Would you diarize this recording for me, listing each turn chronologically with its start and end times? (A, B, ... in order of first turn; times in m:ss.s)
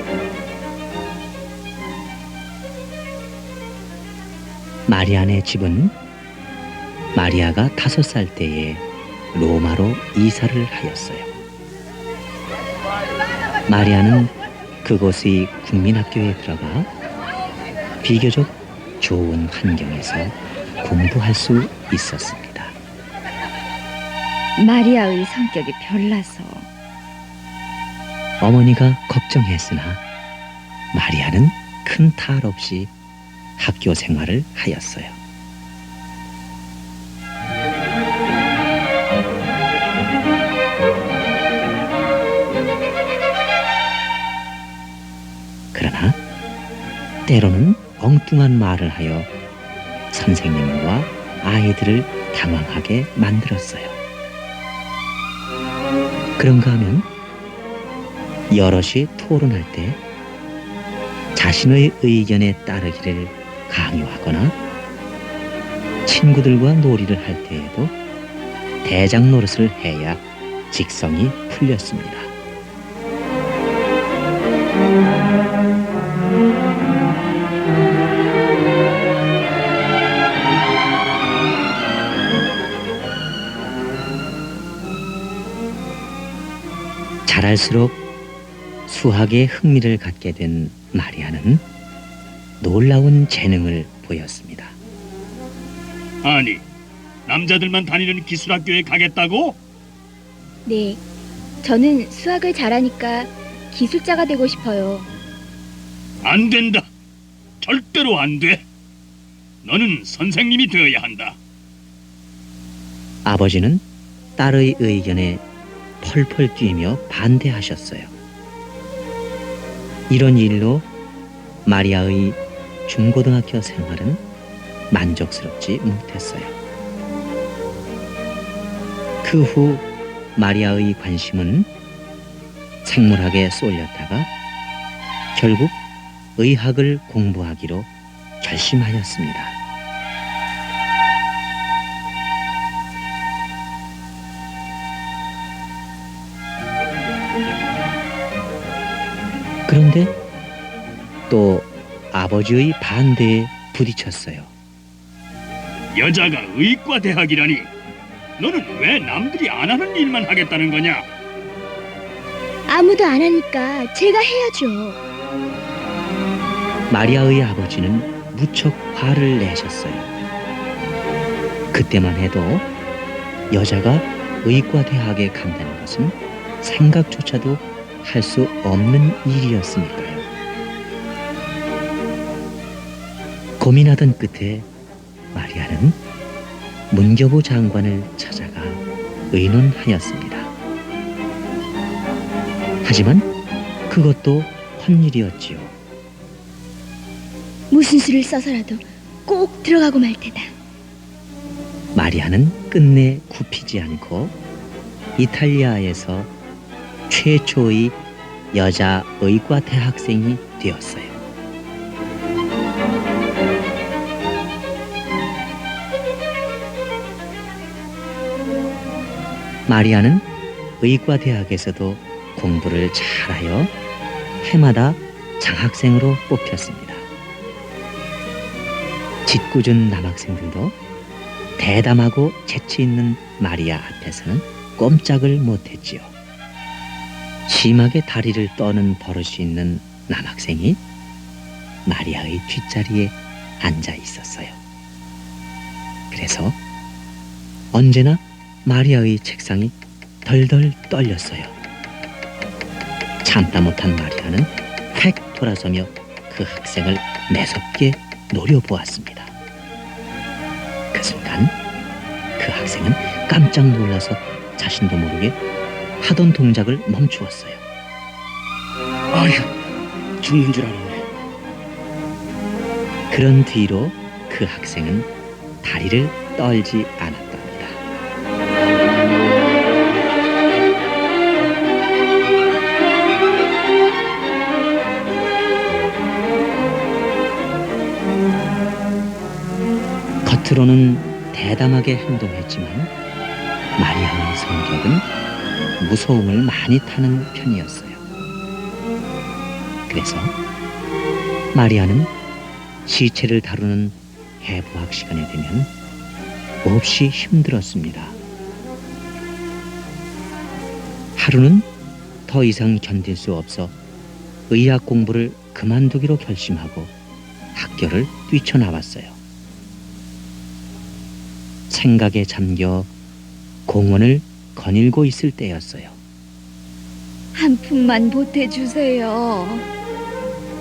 0:04.9-0:06.0 A
0:07.2-0:11.3 A
0:13.7-0:16.9 A
0:18.0-0:22.8 A
0:24.6-0:26.6 B
0:28.4-0:30.0 A
0:30.9-0:32.9 A
0:33.6-0:35.2 A
0:45.7-0:46.2 A
0:47.3-0:49.3 A
0:50.1-0:54.0 A
0:56.4-0:57.1 A
0:58.5-1:00.0 A
1:01.4-1:04.6 A
1:06.1-1:08.0 A
1:08.8-1:12.3 A
1:27.3-1:28.0 A
1:28.9-1:31.6 A
1:32.6-1:34.8 A
1:36.2-1:36.6 C
1:37.3-1:39.6 C
1:40.7-1:41.0 D
1:41.6-1:45.1 D
1:46.2-1:46.9 C
1:47.6-1:48.6 C
1:49.6-1:51.4 C
1:53.2-1:53.8 A
1:54.4-1:55.4 A
1:56.0-1:58.2 A
2:00.1-2:00.9 A
2:01.7-2:04.2 A
2:04.9-2:06.6 A
2:09.2-2:11.7 A
2:12.8-2:14.3 A
2:15.4-2:15.8 A
2:16.4-2:19.6 A
2:29.7-2:30.1 A
2:31.3-2:34.5 A
2:35.9-2:37.7 C
2:38.4-2:41.1 C
2:42.7-2:45.0 D
2:46.9-2:50.1 A
2:51.7-2:52.7 A
2:53.5-3:00.3 A
3:03.6-3:04.7 A
3:05.3-3:06.0 A
3:06.9-3:10.5 A
3:12.8-3:13.3 A
3:13.9-3:15.8 A
3:17.7-3:20.5 D
3:22.0-3:24.4 A
3:25.2-3:26.3 A
3:27.1-3:28.0 A
3:28.5-3:31.2 A
3:39.7-3:40.2 A
3:40.8-3:43.7 A
3:44.4-3:47.1 A
3:49.3-3:50.8 A
3:51.6-3:56.1 A
3:57.5-4:00.8 A
4:01.9-4:04.6 A
4:06.1-4:06.6 A
4:07.7-4:11.6 A
4:13.2-4:19.3 A
4:20.9-4:21.6 A
4:22.4-4:25.4 A
4:26.0-4:27.6 A
4:29.1-4:29.5 C
4:30.2-4:31.0 C
4:33.1-4:35.1 A
4:35.6-4:37.8 A
4:50.2-4:52.9 A
4:53.8-4:55.0 A
4:55.8-4:58.0 A
4:59.9-5:00.3 A
5:01.5-5:02.1 A
5:02.9-5:05.7 A
5:06.6-5:08.2 A
5:11.2-5:11.7 A
5:12.3-5:13.8 A
5:14.5-5:16.9 A
5:17.6-5:19.2 A
5:21.7-5:22.9 A
5:23.7-5:26.0 A
5:27.4-5:29.6 B